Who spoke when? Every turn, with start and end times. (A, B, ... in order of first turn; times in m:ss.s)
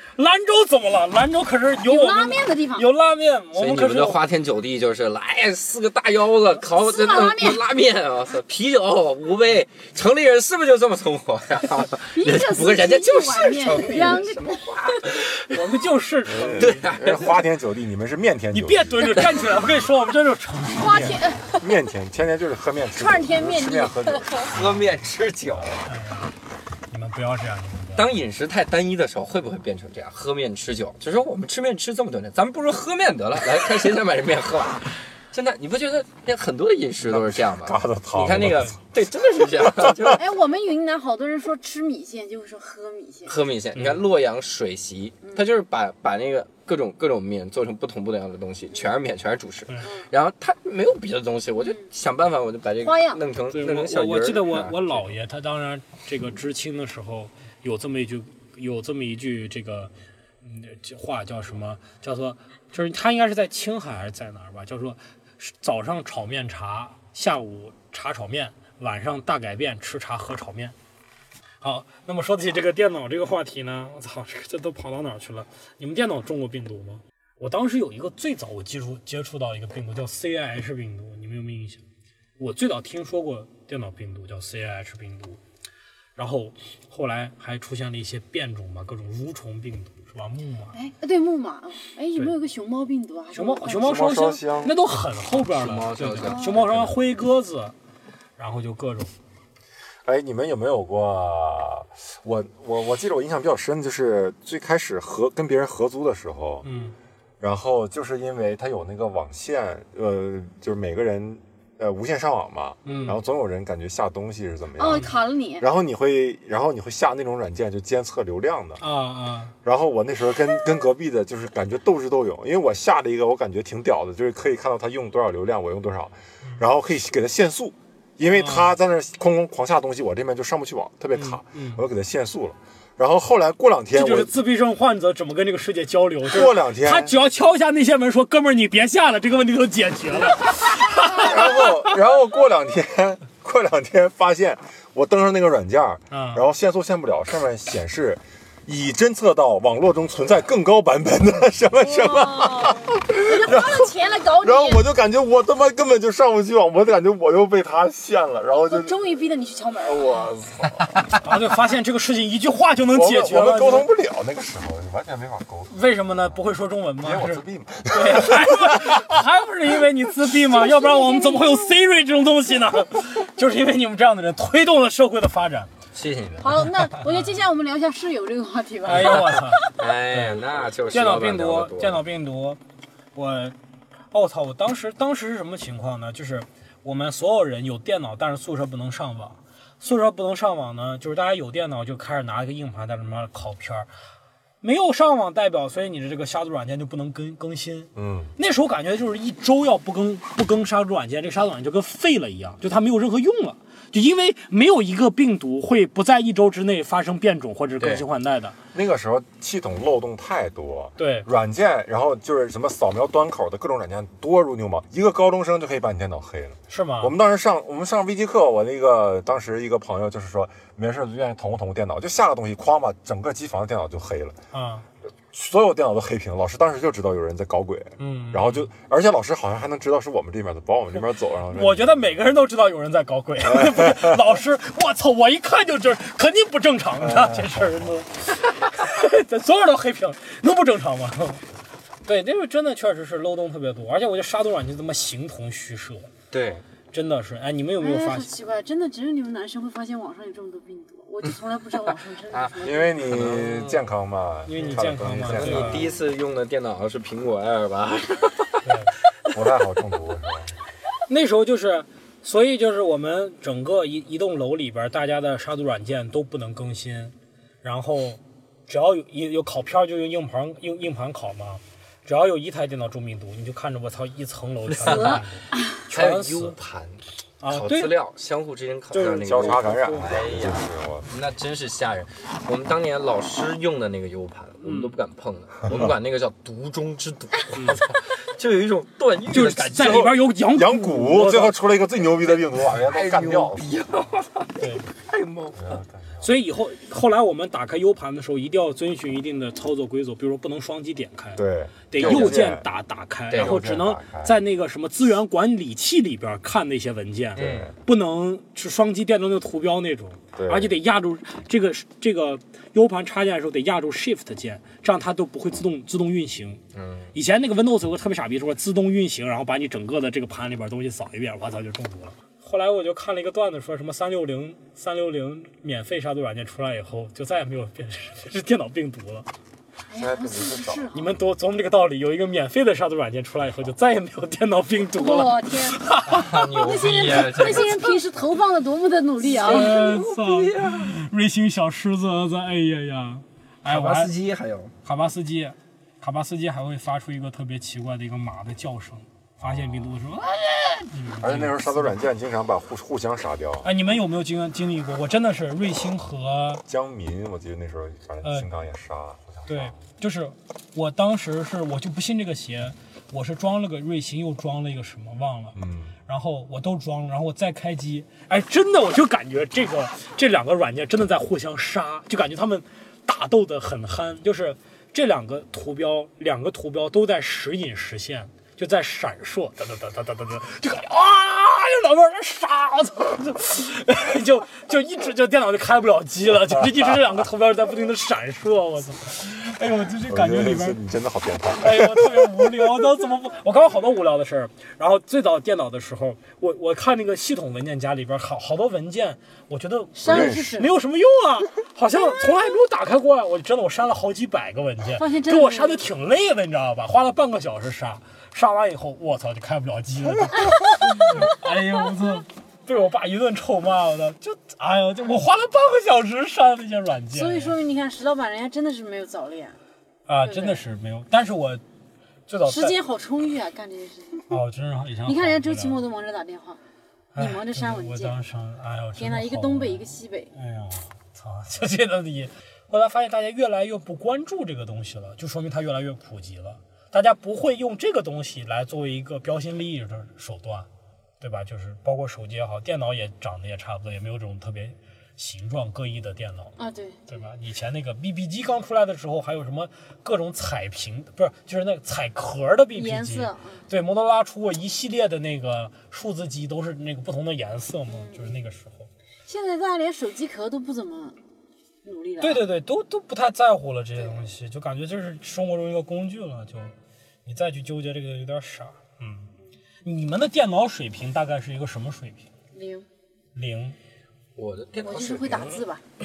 0:00.2-0:04.2 A
0:01.8-0:02.9 B
0:03.6-0:15.5 C
0:06.6-0:07.6 B
0:12.1-0:15.1 B
0:15.5-0:16.8 A
0:16.3-0:19.3 D
0:16.6-0:17.4 C
0:18.5-0:21.2 A
0:19.1-0:19.3 B
0:20.7-0:21.7 B
0:20.8-0:24.8 D
0:22.9-0:24.5 B
0:24.5-0:25.8 C
0:25.5-0:25.8 D
0:25.8-0:26.3 A
0:26.9-0:28.2 A
0:27.9-0:40.2 C
0:37.0-0:38.8 D
0:39.6-0:40.1 D
0:40.1-0:43.3 B
0:43.2-0:55.1 C
0:43.8-0:44.0 A
0:49.8-0:50.1 B
0:51.6-0:51.9 B
0:52.8-0:53.2 B
0:53.5-0:59.9 A
1:00.4-1:10.8 A
1:11.6-1:21.8 A
1:22.4-1:25.4 A
1:26.2-1:30.8 A
1:30.7-1:34.1 B
1:33.3-1:37.7 A
1:33.8-1:34.8 D
1:35.5-1:37.0 C
1:36.2-1:36.6 B
1:38.4-1:39.1 A
1:40.0-1:46.6 D
1:46.6-1:47.0 A
1:47.4-1:58.8 D
1:52.8-1:53.2 A
1:54.8-1:55.7 B
1:58.8-1:59.5 A
1:59.6-2:14.3 D
2:08.3-2:08.7 A
2:11.1-2:11.8 A
2:13.9-2:21.8 A
2:16.3-2:17.2 D
2:21.0-2:39.0 D
2:26.1-2:26.4 A
2:31.8-2:34.8 B
2:38.7-2:40.3 B
2:39.9-2:40.7 C
2:41.1-2:43.9 A
2:42.9-2:45.7 D
2:45.7-2:55.7 A
2:47.0-2:49.2 D
2:50.4-2:51.8 B
2:55.9-2:56.5 C
2:56.4-2:59.7 B
2:57.0-2:57.3 A
2:58.8-3:02.6 A
2:59.8-3:02.0 C
3:03.1-3:03.6 A
3:04.1-3:13.9 A
3:14.6-3:28.5 A
3:18.0-3:18.3 D
3:28.7-3:44.4 D
3:31.0-3:31.3 A
3:36.7-3:37.1 A
3:44.5-3:44.8 A
3:45.3-3:52.2 D
3:48.0-3:48.7 A
3:51.5-4:01.4 A
3:53.4-3:54.2 D
3:57.0-3:57.9 D
4:02.0-4:06.1 A
4:06.3-4:06.6 C
4:06.9-4:08.3 A
4:07.8-4:13.0 B
4:12.3-4:13.8 C
4:12.6-4:15.9 D
4:14.4-4:15.9 A
4:14.6-4:18.7 C
4:18.6-4:18.9 A
4:19.3-4:20.5 D
4:21.1-4:36.6 A
4:34.7-4:35.2 C
4:34.8-4:35.8 B
4:35.9-4:50.2 C
4:37.4-4:38.0 A
4:38.9-4:40.1 A
4:39.2-4:41.1 D
4:44.6-4:45.0 A
4:47.5-4:47.8 A
4:49.3-4:51.6 A
4:49.8-4:53.7 D
4:52.5-4:55.8 C
4:54.6-4:54.9 A
4:55.6-4:56.3 D
4:56.2-5:16.6 A
5:01.4-5:02.7 D
5:02.0-5:02.4 C
5:03.3-5:03.6 C
5:03.3-5:04.4 D
5:07.4-5:07.7 C
5:07.4-5:07.7 D
5:10.3-5:10.7 D
5:16.7-5:17.1 C
5:17.1-5:29.3 A
5:29.9-5:31.0 B
5:29.9-5:31.2 D
5:30.9-5:36.4 A
5:34.9-5:39.8 B
5:36.1-5:38.0 C
5:39.2-5:40.9 C
5:39.4-5:44.1 A
5:43.6-5:44.7 C
5:44.8-5:51.9 A
5:49.4-5:50.0 D
5:51.2-5:53.7 D
5:53.6-5:56.6 A
5:56.6-5:59.8 D
5:59.5-6:30.8 A
6:05.5-6:06.0 D
6:30.1-6:32.7 D
6:31.6-6:57.6 A
6:40.0-6:40.7 B
6:40.0-6:40.6 D
6:44.9-6:45.8 B
6:50.4-6:51.3 B
6:57.1-6:59.6 B
7:00.1-7:01.6 A
7:00.2-7:00.6 B
7:02.3-7:02.8 A
7:02.4-7:04.4 B
7:04.3-7:05.8 A
7:05.0-7:06.6 B
7:07.1-7:20.7 A
7:07.2-7:08.2 B
7:09.0-7:10.3 B
7:21.2-7:26.5 A
7:26.6-7:27.0 B
7:27.1-7:38.9 A
7:32.7-7:33.6 B
7:37.9-7:38.4 B
7:39.2-7:41.2 B
7:41.8-7:42.4 B
7:42.2-7:46.7 A
7:44.0-7:44.3 B
7:47.2-7:49.3 A
7:49.8-7:52.2 A
7:52.5-7:52.9 B
7:53.3-7:53.8 A
7:54.4-7:55.6 C
7:54.8-7:55.8 B